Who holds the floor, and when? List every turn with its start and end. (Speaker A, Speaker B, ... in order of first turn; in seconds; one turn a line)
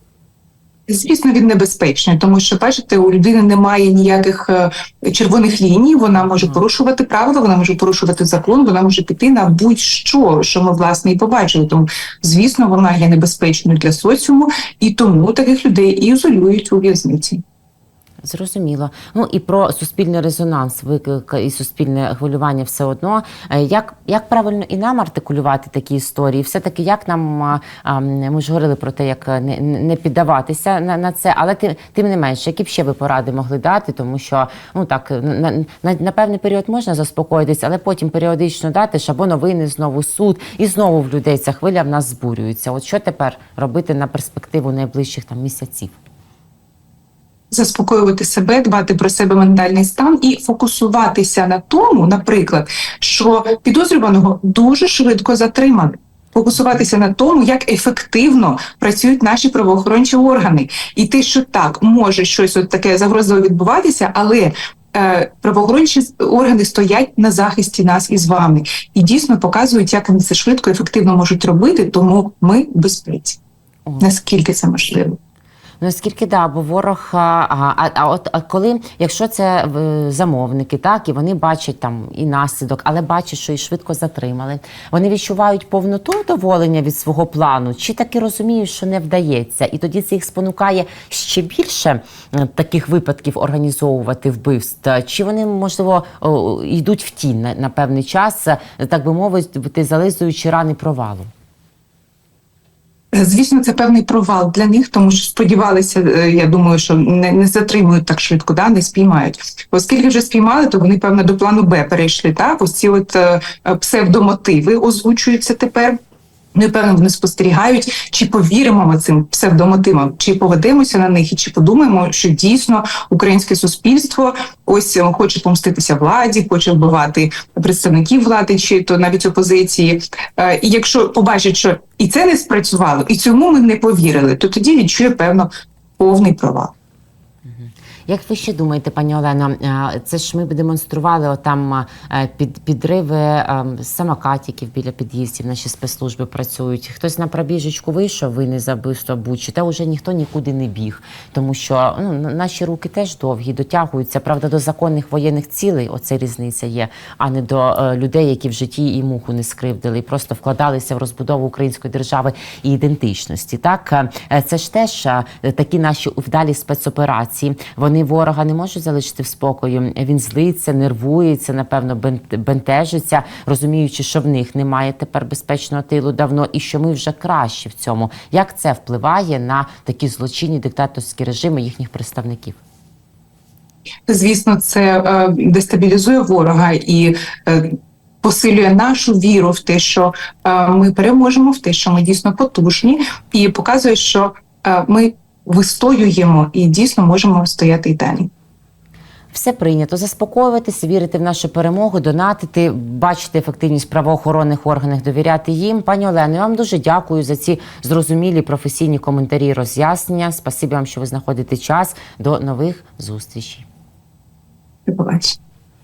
Speaker A: 0.9-17.4
Speaker B: 18.2-46.0
Speaker A: 47.5-73.4
Speaker A: 74.0-75.2
Speaker B: 75.8-101.3
Speaker A: 103.1-116.0
Speaker A: 116.5-136.7
Speaker B: 137.5-182.6
Speaker A: 184.1-198.3
Speaker B: 199.3-213.7
Speaker A: 214.9-215.4